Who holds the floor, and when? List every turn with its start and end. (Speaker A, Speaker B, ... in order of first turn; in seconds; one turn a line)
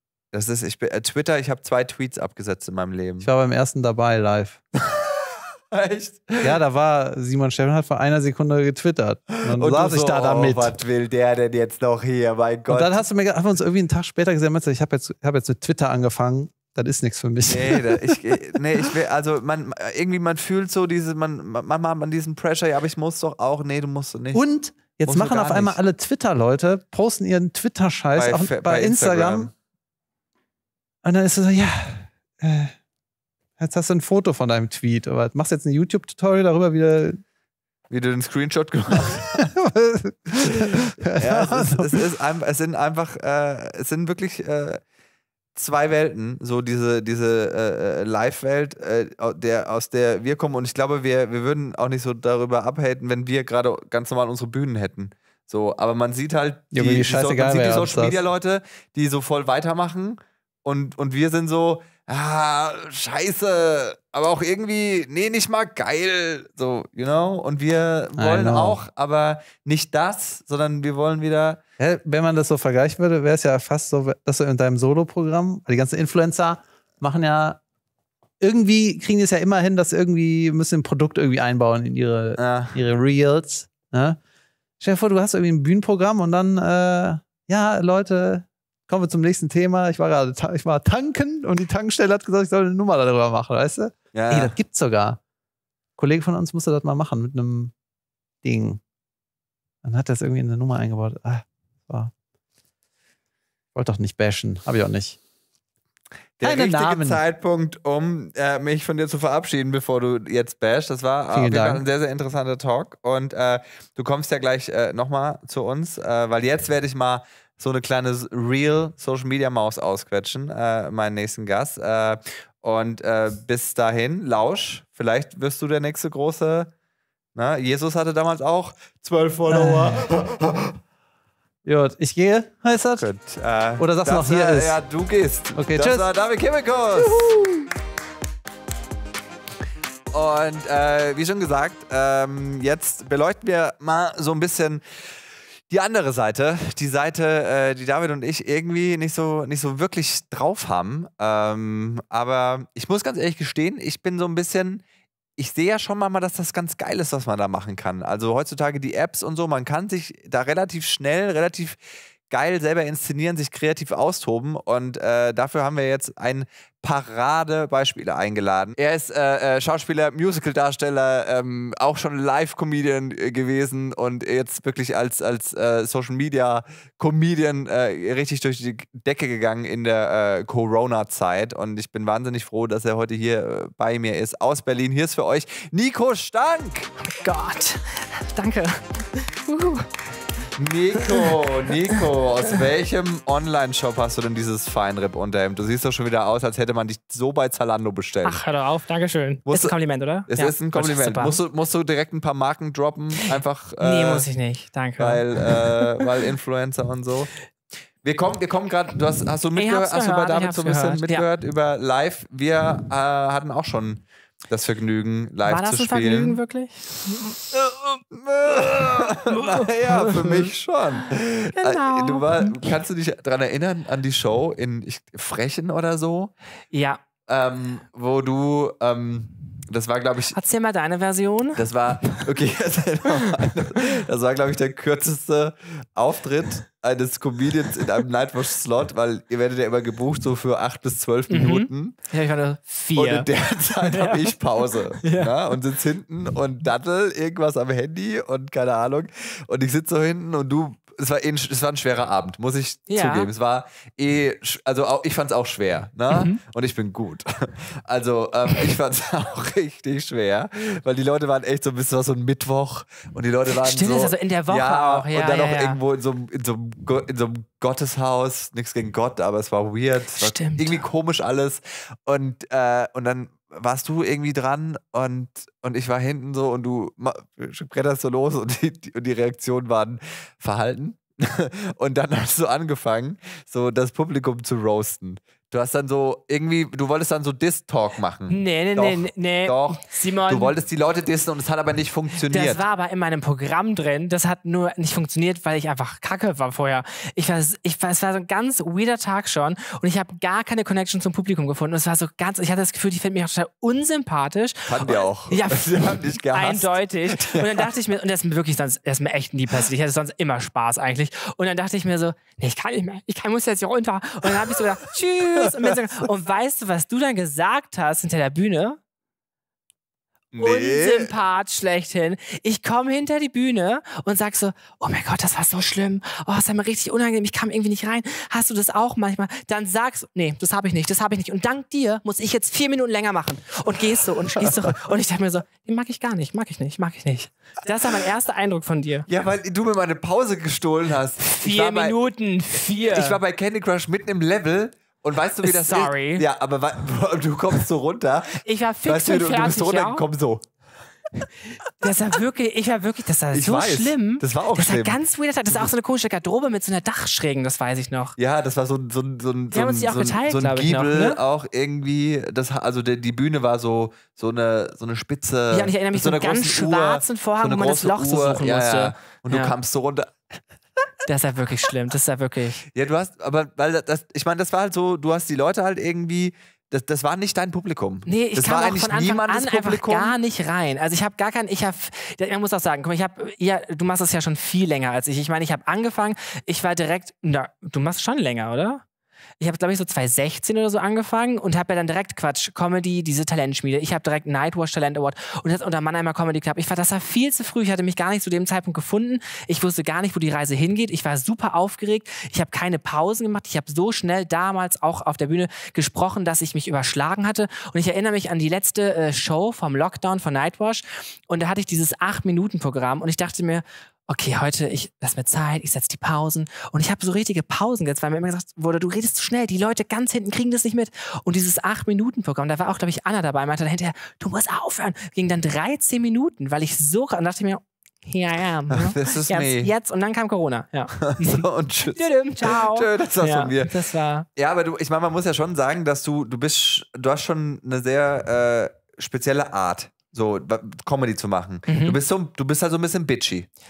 Speaker A: 0.3-3.3
Speaker B: 3.2-4.6
Speaker A: 4.9-6.6
Speaker B: 6.4-10.8
Speaker A: 9.4-13.0
Speaker B: 12.7-18.6
Speaker A: 17.5-24.4
Speaker B: 24.3-29.5
Speaker A: 25.0-25.8
Speaker A: 28.1-29.5
Speaker B: 31.0-32.7
Speaker B: 33.6-37.2
Speaker A: 37.9-39.5
Speaker B: 39.3-42.0
Speaker A: 40.4-44.8
Speaker A: 45.5-71.6
Speaker B: 56.7-58.2
Speaker B: 68.2-68.8
Speaker B: 71.8-77.6
Speaker B: 78.4-84.2
Speaker A: 82.4-82.8
Speaker B: 84.8-95.2
Speaker A: 94.1-94.5
Speaker B: 96.0-97.7
Speaker B: 98.4-98.8
Speaker B: 99.8-102.1
Speaker B: 103.7-105.2
Speaker A: 106.4-126.7
Speaker B: 106.4-107.2
Speaker B: 111.3-111.8
Speaker A: 127.3-130.8
Speaker B: 129.5-130.1
Speaker B: 131.6-133.1
Speaker A: 132.9-137.3
Speaker B: 133.8-134.8
Speaker B: 135.6-136.1
Speaker B: 137.0-137.6
Speaker A: 140.1-144.8
Speaker A: 145.7-154.8
Speaker A: 155.4-161.8
Speaker A: 162.3-186.9
Speaker C: 187.1-189.9
Speaker A: 190.5-198.4
Speaker C: 198.2-201.4
Speaker A: 199.4-199.8
Speaker A: 200.3-204.3
Speaker C: 203.8-205.6
Speaker A: 205.0-207.3
Speaker A: 208.0-216.4
Speaker C: 209.6-211.2
Speaker C: 215.4-217.4
Speaker A: 217.5-226.3
Speaker C: 219.2-220.4
Speaker C: 221.6-222.6
Speaker C: 226.7-227.0
Speaker A: 227.3-230.3
Speaker C: 230.3-231.6
Speaker A: 231.6-242.0
Speaker C: 241.3-243.3
Speaker A: 242.9-292.6
Speaker C: 243.8-244.3
Speaker C: 245.0-245.3
Speaker C: 252.9-253.3
Speaker C: 256.1-256.4
Speaker C: 263.5-265.8
Speaker C: 270.2-270.8
Speaker C: 288.3-290.5
Speaker C: 292.3-318.8
Speaker A: 304.7-307.7
Speaker A: 315.4-315.7
Speaker A: 320.3-321.1
Speaker C: 320.4-339.1
Speaker A: 334.4-334.7
Speaker A: 339.1-341.9
Speaker C: 341.2-343.2
Speaker A: 342.9-350.4
Speaker C: 345.4-346.2
Speaker C: 348.4-350.0
Speaker C: 351.8-358.1
Speaker A: 353.3-355.0
Speaker A: 358.2-370.3
Speaker C: 359.5-361.2
Speaker C: 365.5-369.5
Speaker C: 371.1-372.6
Speaker A: 372.7-380.1
Speaker C: 378.1-388.8
Speaker C: 389.4-434.3
Speaker A: 428.7-429.7
Speaker A: 431.0-433.7
Speaker A: 434.3-443.5
Speaker C: 441.7-442.0